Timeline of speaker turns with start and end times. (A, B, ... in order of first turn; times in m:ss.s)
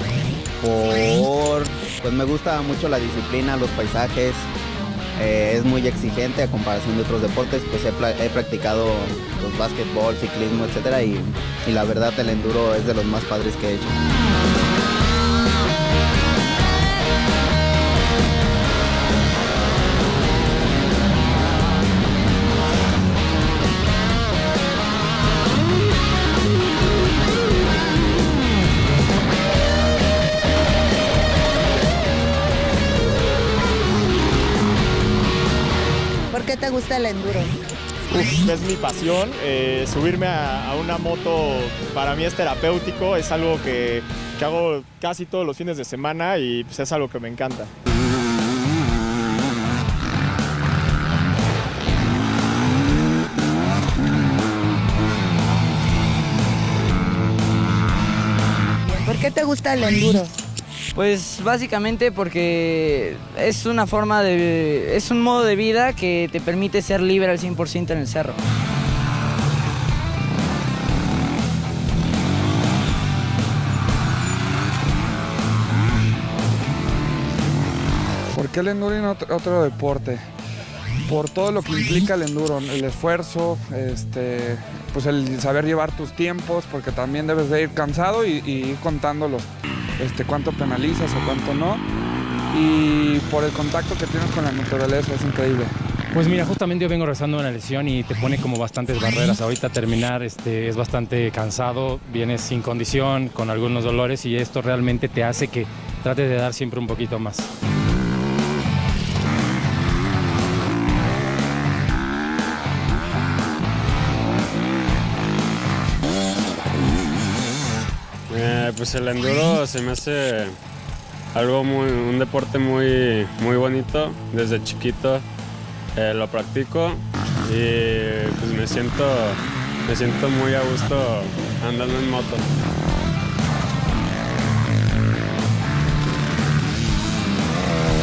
0:00.6-0:04.5 A
0:05.2-0:13.9 A
0:36.3-0:37.5 B
0:38.1-0:47.7 C
0:58.8-1:00.3 B
1:00.9-1:08.4 D
1:18.3-1:20.2 E
1:21.0-1:31.8 E
1:32.5-1:35.7 E
1:36.1-1:47.5 F
1:58.3-2:00.6 G
2:01.3-2:05.2 G
2:06.0-2:12.4 G